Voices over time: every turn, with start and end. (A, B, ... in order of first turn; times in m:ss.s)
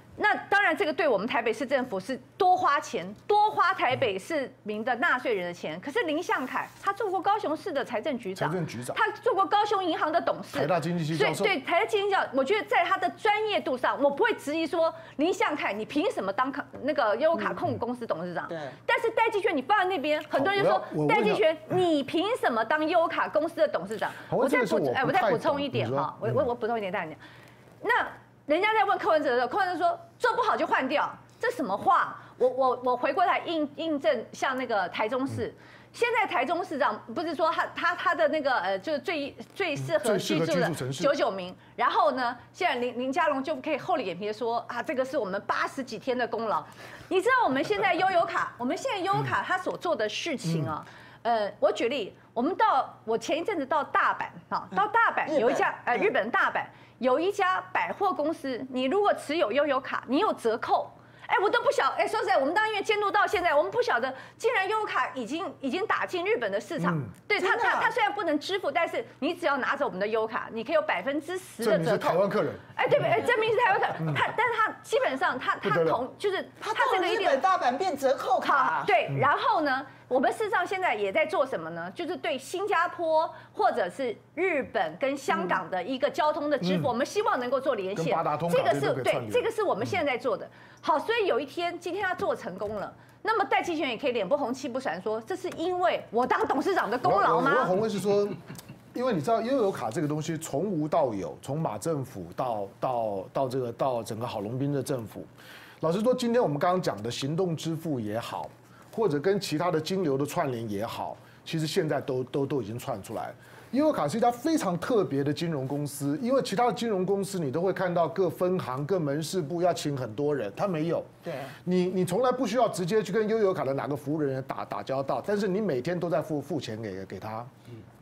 0:00.2-0:27.2 A
0:08.4-0:09.0 B
0:10.5-0:11.5 B
0:18.5-0:18.8 C
0:20.3-0:21.4 B
0:24.3-0:26.4 B
0:27.8-1:17.4 A
0:39.9-0:41.1 B
0:54.7-0:56.1 C
1:06.8-1:07.1 B
1:07.4-1:07.9 C
1:11.6-1:12.6 B
1:15.6-1:16.0 B
1:16.6-1:18.9 C
1:18.4-1:37.7 A
1:26.6-1:26.9 B
1:27.9-1:29.5 B
1:37.0-1:38.4 B
1:38.9-1:45.3 B
1:45.8-2:01.1 B
2:01.2-2:01.5 C
2:01.6-2:07.5 B